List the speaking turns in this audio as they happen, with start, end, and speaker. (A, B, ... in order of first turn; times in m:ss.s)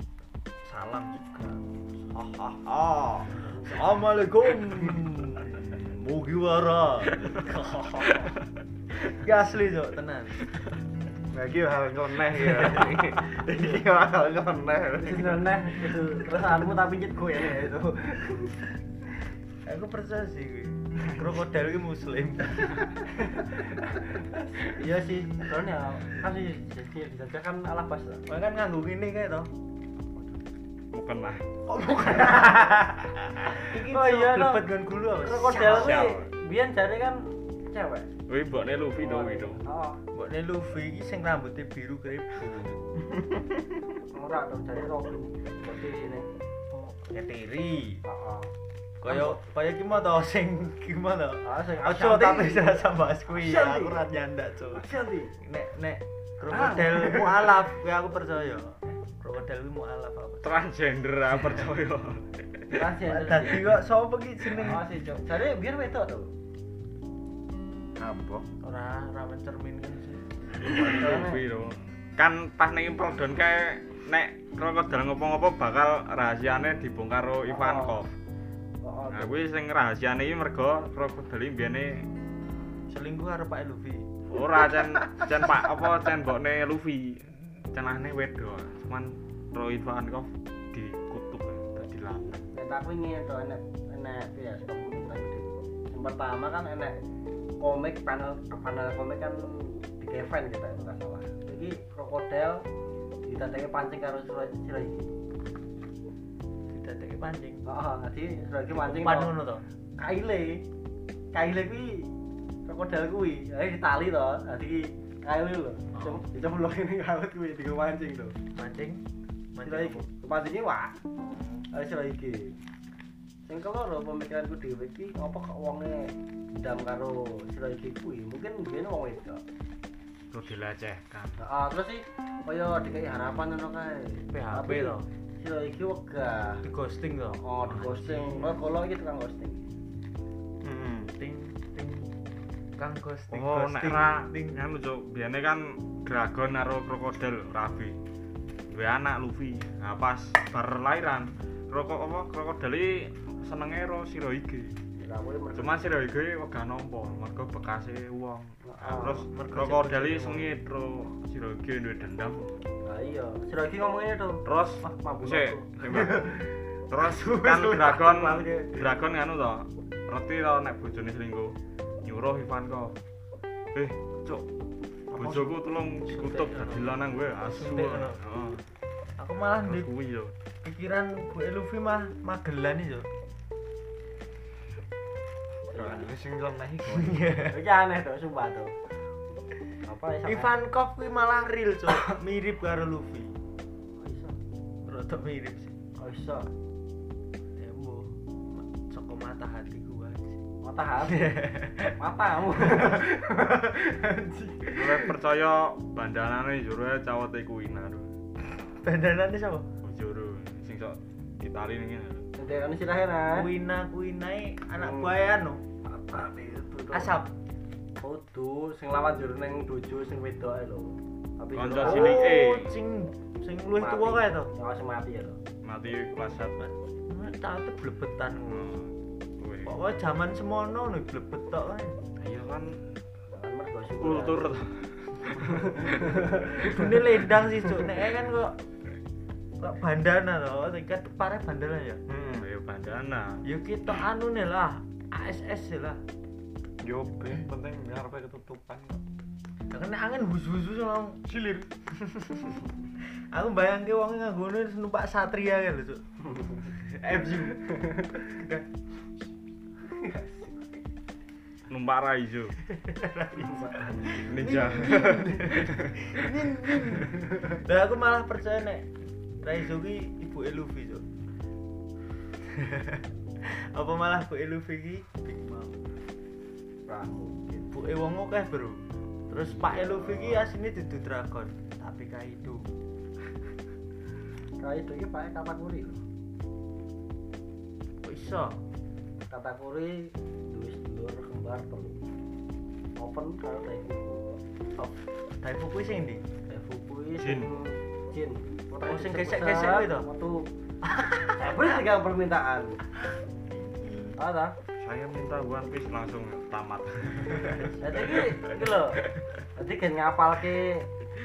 0:00.6-0:02.5 A
0:03.3-0:08.3 A
0:09.0-0:10.5 A
0:11.3-0:15.5 B
0:15.0-0:18.6 C
0:19.6-0:23.0 A
0:23.2-0:28.2 C
0:28.3-0:29.5 A
0:30.9-0:31.4 D
0:31.7-0:36.0 A
0:31.9-0:32.6 C
0:33.5-0:38.1 C
0:35.6-0:36.2 D
0:38.3-0:39.6 D
0:38.9-0:40.0 C
0:40.1-0:42.5 A
0:44.1-0:46.3 C
0:46.7-0:48.0 A
0:48.0-0:48.5 C
0:49.0-0:54.8 A
0:49.0-0:49.4 C
0:51.4-0:54.0 C
0:54.7-0:55.4 C
0:55.4-1:00.5 A
0:56.5-0:57.5 C
1:00.4-1:02.8 D
1:02.7-1:03.8 C
1:03.0-1:04.8 A
1:04.5-1:06.3 C
1:08.0-1:08.4 B
1:08.6-1:10.2 A
1:10.6-1:18.1 D
1:10.7-1:11.4 C
1:17.5-1:18.0 C
1:18.8-1:19.4 C
1:19.1-1:22.1 D
1:22.9-1:24.1 A
1:24.3-1:32.4 D
1:32.5-1:37.0 C
1:37.6-1:42.6 C
1:43.2-1:45.1 C
1:46.7-1:47.6 A
1:47.6-1:49.3 C
1:48.7-1:49.6 A
1:50.0-1:50.6 C
1:51.3-1:52.1 C
1:52.6-1:58.3 C
1:55.9-1:56.2 A
1:58.5-1:59.0 A
1:59.5-2:00.1 A
1:59.6-2:01.0 C
2:01.7-2:02.6 C
2:03.4-2:09.4 C
2:10.3-2:11.4 D
2:11.4-2:16.6 C
2:14.3-2:15.1 A
2:16.6-2:18.6 A
2:17.4-2:19.6 C
2:20.6-2:21.1 B
2:21.2-2:22.1 A
2:22.8-2:24.6 A
2:23.3-2:28.0 D
2:28.7-2:34.7 D
2:35.0-2:35.9 C
2:35.5-2:42.6 D
2:38.6-2:39.3 C
2:39.0-2:40.5 A
2:42.8-2:46.5 C
2:44.4-2:46.3 D
2:46.9-2:52.9 D
2:47.0-2:48.7 C
2:53.7-2:54.4 D
2:55.1-2:58.6 D
2:55.2-2:55.5 A
2:56.0-2:58.2 A
2:59.2-2:59.9 A
2:59.6-3:00.3 D
3:00.6-3:03.1 A
3:05.7-3:06.1 C
3:05.7-3:07.3 B
3:06.9-3:07.6 A
3:07.5-3:08.7 C
3:09.8-3:10.5 C
3:10.2-3:13.3 A
3:14.0-3:14.4 C
3:14.8-3:15.7 A
3:16.0-3:16.5 C
3:17.6-3:20.4 A
3:20.6-3:21.4 C
3:21.0-3:22.0 A
3:22.0-3:25.1 C
3:22.6-3:22.9 A
3:24.7-3:28.1 D
3:28.8-3:29.6 A
3:29.8-3:32.3 D
3:32.4-3:33.5 C
3:33.3-3:35.6 A
3:34.8-3:35.1 C
3:35.8-3:37.1 C
3:36.9-3:37.3 A
3:38.0-3:42.2 C
3:41.5-3:42.7 D
3:41.8-3:44.5 A
3:43.8-3:45.4 C
3:45.6-3:46.7 D
3:47.1-3:48.7 A
3:48.5-3:49.8 D
3:49.6-3:52.0 A
3:52.2-3:52.8 D
3:53.3-3:54.4 C
3:54.0-3:56.3 D
3:55.4-3:57.0 C
3:56.4-3:58.6 A
3:59.6-4:02.0 A
4:02.1-4:02.5 B
4:02.4-4:03.4 D
4:03.4-4:06.0 A
4:06.8-4:09.0 B
4:09.7-4:11.2 A
4:11.3-4:11.7 B
4:11.9-4:12.6 A
4:13.3-4:16.0 A
4:16.2-4:16.7 C
4:16.8-4:17.7 A
4:17.5-4:18.2 C
4:19.8-4:20.8 C
4:21.7-4:22.6 D
4:22.9-4:28.8 A
4:23.4-4:24.2 C
4:24.2-4:25.9 D
4:27.0-4:27.5 C
4:29.4-4:31.0 A
4:32.5-4:35.8 A
4:36.9-4:37.7 C
4:37.7-4:42.7 A
4:39.4-4:40.5 C
4:44.6-4:46.0 C
4:48.0-4:48.6 A
4:49.3-4:52.0 C
4:53.0-4:54.2 C
4:54.8-4:56.2 A
4:56.5-5:00.5 C
4:57.2-4:57.5 D
4:58.8-5:00.1 A
5:00.8-5:01.7 A
5:01.4-5:02.8 C
5:03.5-5:04.2 A
5:04.2-5:04.5 C
5:04.8-5:08.6 D
5:07.8-5:09.0 C
5:09.6-5:10.9 C